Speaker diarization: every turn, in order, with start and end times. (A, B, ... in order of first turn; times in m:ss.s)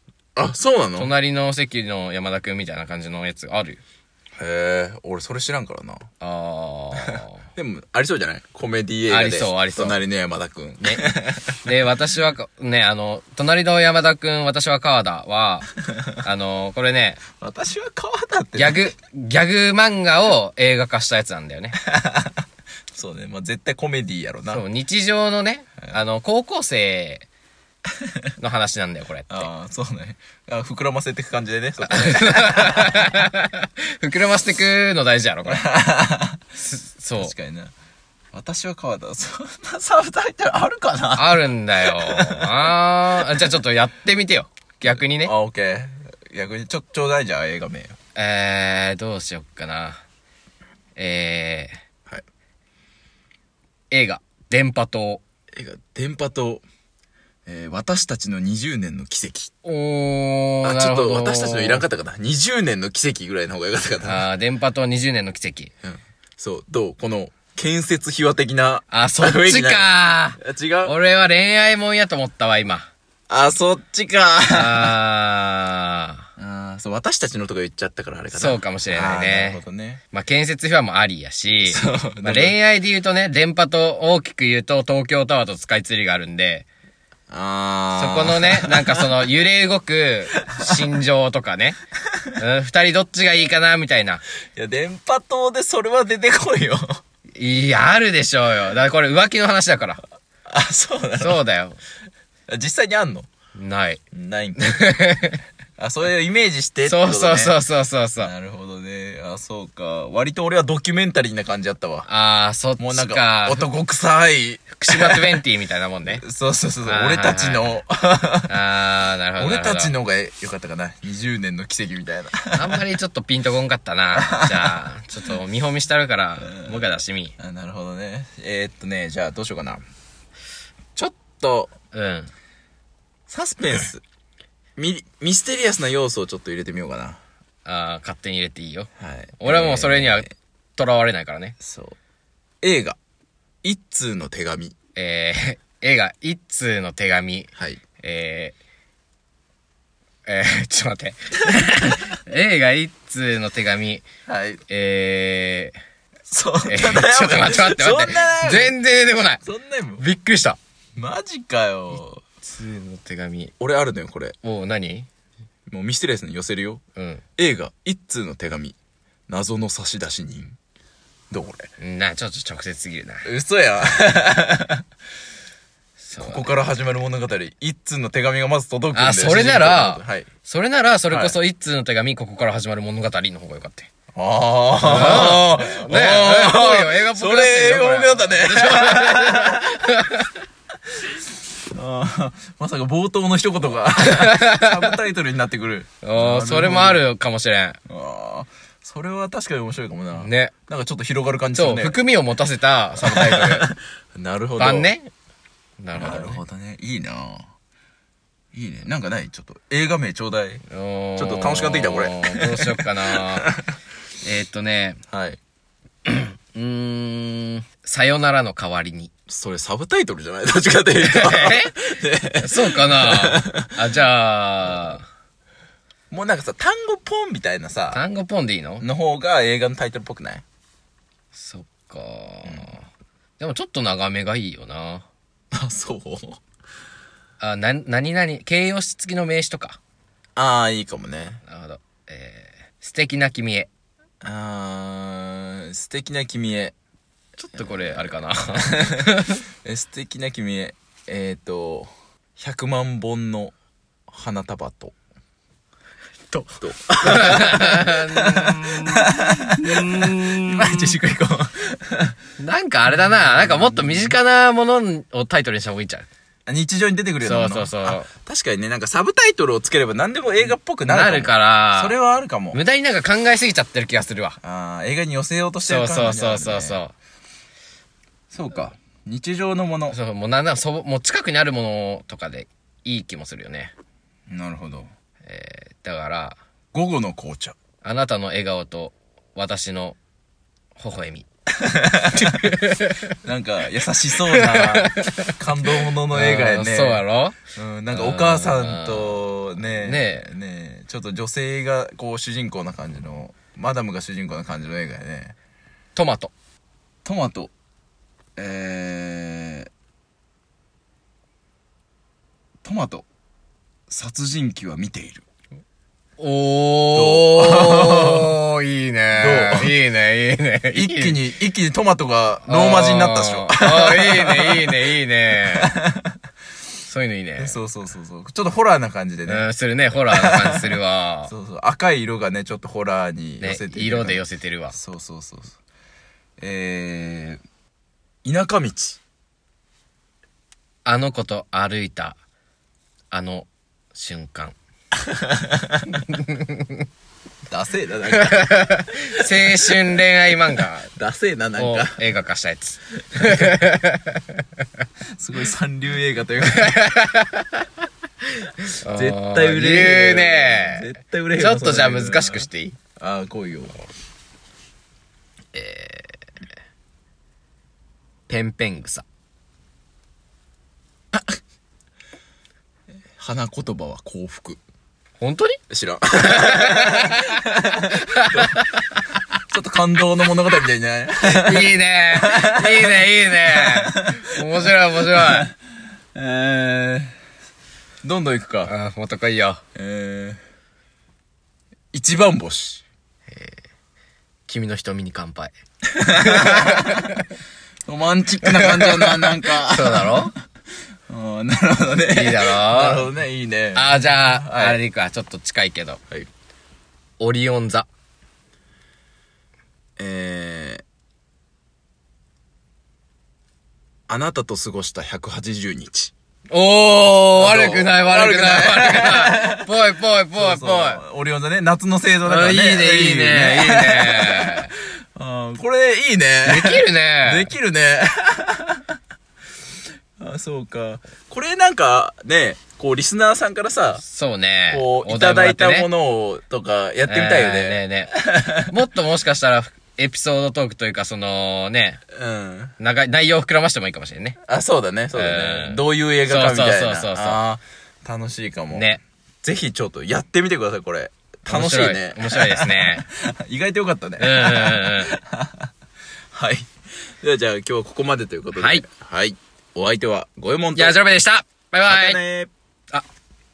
0:00.4-0:01.1 A
0:01.0-0:03.8 B
0:04.4-0:06.0 A
0:06.2-0:07.4 B
0:07.1-0:11.5 A
0:09.1-0:10.0 B
0:11.6-0:15.7 B
0:16.2-0:17.2 B
0:17.4-0:18.9 A
0:18.6-0:21.8 B
0:21.8-0:22.4 A
0:22.9-0:24.6 A
0:24.5-0:27.3 B
0:28.4-0:29.5 B
0:29.3-0:32.9 A
0:31.9-0:35.6 B
0:35.5-0:36.4 A
0:36.6-0:37.3 B
0:37.2-0:37.7 A
0:38.3-0:42.7 A
0:41.2-0:45.3 B
0:44.8-0:48.0 A
0:48.2-0:50.0 B
0:51.0-0:51.8 B
0:53.9-0:55.2 B
0:55.5-0:56.6 A
0:57.5-0:59.5 A
0:59.6-1:01.8 B
1:00.6-1:04.2 A
1:04.0-1:05.7 B
1:05.8-1:11.0 A
1:08.9-1:12.9 B
1:13.3-1:14.9 A
1:14.5-1:16.3 B
1:16.4-1:20.0 A
1:18.3-1:19.6 B
1:20.1-1:26.7 B
1:21.7-1:22.6 A
1:27.3-1:29.1 A
1:28.0-1:31.8 B
1:30.4-1:30.7 A
1:32.4-1:34.2 B
1:34.6-1:37.0 A
1:37.4-1:40.0 B
1:40.5-1:41.4 A
1:41.2-1:41.8 B
1:42.5-1:43.3 A
1:43.6-1:44.0 B
1:44.1-1:45.0 A
1:44.6-1:45.4 B
1:45.8-1:47.6 A
1:46.9-1:48.3 B
1:48.2-1:52.1 A
1:52.1-1:53.7 B
1:52.8-1:55.4 A
1:54.8-1:56.2 B
1:56.1-1:58.6 A
1:56.9-1:57.7 B
1:58.5-2:00.0 B
1:59.4-2:02.8 A
2:02.5-2:07.4 B
2:04.2-2:04.8 A
2:06.4-2:09.8 A
2:11.0-2:11.7 A
2:11.9-2:12.3 B
2:13.3-2:14.0 A
2:14.8-2:17.2 A
2:17.6-2:18.9 B
2:19.0-2:20.3 A
2:19.4-2:21.6 B
2:21.6-2:22.0 A
2:22.6-2:23.0 A
2:23.6-2:24.8 A
2:25.0-2:28.6 B
2:30.3-2:34.1 B
2:31.7-2:32.0 A
2:34.3-2:34.6 A
2:34.7-2:35.8 B
2:36.3-2:38.8 A
2:36.6-2:39.4 B
2:39.4-2:40.0 A
2:40.0-2:40.6 B
2:41.0-2:42.2 A
2:42.4-2:43.5 B
2:43.6-2:44.4 A
2:44.4-2:45.1 B
2:45.7-2:46.8 A
2:47.0-2:47.2 B
2:47.4-2:48.8 A
2:49.3-2:50.6 A
2:51.3-2:51.7 A
2:51.8-2:53.3 B
2:53.2-2:54.8 A
2:56.0-2:56.6 B
2:56.2-3:00.3 A
2:58.9-3:03.9 B
3:01.1-3:01.4 A
3:04.1-3:09.8 A
3:04.8-3:10.3 B
3:11.7-3:17.0 A
3:14.0-3:14.9 B
3:16.0-3:17.8 B
3:17.9-3:22.0 A
3:20.2-3:20.5 B
3:21.6-3:23.7 B
3:23.0-3:24.9 A
3:24.6-3:25.1 B
3:25.8-3:26.4 B
3:25.9-3:27.5 A
3:28.5-3:30.6 A
3:30.7-3:33.5 B
3:31.2-3:33.6 A
3:34.2-3:35.0 B
3:35.1-3:35.4 A
3:36.1-3:39.1 B
3:39.3-3:43.8 A
3:41.0-3:41.8 B
3:42.4-3:45.1 B
3:46.1-3:48.0 A
3:47.9-3:48.8 B
3:48.8-3:50.4 A
3:51.3-3:52.9 B
3:52.5-3:52.7 A
3:53.4-3:55.1 B
3:55.5-3:56.4 A
3:57.4-3:59.8 B
4:00.4-4:01.4 A
4:01.5-4:03.7 B
4:04.2-4:06.7 A
4:07.4-4:09.4 B
4:07.6-4:08.1 A
4:08.8-4:09.1 A
4:09.6-4:13.5 A
4:14.1-4:15.0 A
4:16.3-4:21.0 B
4:16.6-4:22.2 A
4:22.4-4:26.1 B
4:22.9-4:24.2 A
4:26.5-4:32.6 A
4:27.2-4:28.1 B
4:30.9-4:32.0 B
4:32.5-4:34.4 B
4:34.4-4:36.8 A
4:35.6-4:36.9 B
4:38.3-4:40.0 A
4:39.9-4:43.7 B
4:44.3-4:44.9 A
4:45.2-4:46.4 B
4:46.7-4:47.6 A
4:47.8-4:50.0 B
4:50.8-4:51.3 B
4:51.6-4:52.4 A
4:52.2-4:53.1 B
4:53.2-4:57.0 A
4:54.3-4:55.4 B
4:56.1-4:57.4 B
4:57.6-5:05.4 A
4:57.9-4:59.2 B
4:59.7-5:00.2 B
5:06.0-5:06.3 B
5:07.0-5:07.5 A
5:08.4-5:09.7 A
5:12.6-5:13.1 A
5:13.9-5:15.2 A
5:16.2-5:21.2 B
5:16.9-5:18.3 A
5:19.1-5:19.8 A
5:20.7-5:24.9 A
5:22.4-5:25.7 B
5:25.6-5:26.2 A
5:26.9-5:27.6 B
5:27.4-5:35.6 A
5:29.3-5:31.3 B
5:33.4-5:34.8 B
5:36.4-5:37.4 A
5:38.2-5:39.0 A
5:40.8-5:42.2 B
5:43.1-5:44.6 B
5:45.1-5:45.8 A
5:46.1-5:46.6 B
5:47.5-5:49.6 A
5:48.3-5:50.9 B
5:51.0-5:52.0 A
5:51.6-5:54.2 B
5:53.2-5:53.5 A
5:55.2-5:56.7 A
5:56.6-5:57.5 B
5:58.8-6:02.8 B
5:58.9-6:03.8 A
6:05.5-6:06.2 B
6:08.3-6:09.0 B
6:13.2-6:14.6 A
6:15.2-6:15.6 B
6:15.7-6:18.6 A
6:16.3-6:17.4 B
6:18.1-6:19.0 B
6:19.5-6:25.5 A
6:21.2-6:25.5 B
6:26.2-6:27.2 A
6:28.0-6:28.7 A
6:28.6-6:29.6 B
6:29.8-6:30.4 A
6:31.9-6:32.8 A
6:33.3-6:33.6 B
6:34.5-6:35.5 B
6:36.0-6:37.0 A
6:36.1-6:37.2 B
6:37.9-6:40.3 A
6:38.4-6:40.3 B
6:41.1-6:44.8 A
6:42.1-6:43.1 B
6:43.7-6:46.0 B
6:47.2-6:47.9 B
6:50.0-6:50.8 A
6:54.1-6:56.1 A
6:56.5-7:01.0 B
6:57.4-6:59.7 A
7:00.3-7:08.8 A
7:02.2-7:04.7 B
7:06.4-7:07.5 B
7:10.2-7:14.0 A
7:14.0-7:15.9 B
7:14.7-7:18.7 A
7:17.1-7:22.0 B
7:22.2-7:22.8 A
7:22.8-7:24.4 B
7:24.5-7:28.9 A
7:25.1-7:27.4 B
7:28.7-7:29.0 B
7:29.4-7:35.7 A
7:31.5-7:33.1 B
7:34.2-7:35.1 B
7:36.3-7:41.0 A
7:38.5-7:38.8 B
7:40.8-7:42.2 B
7:41.9-7:42.5 A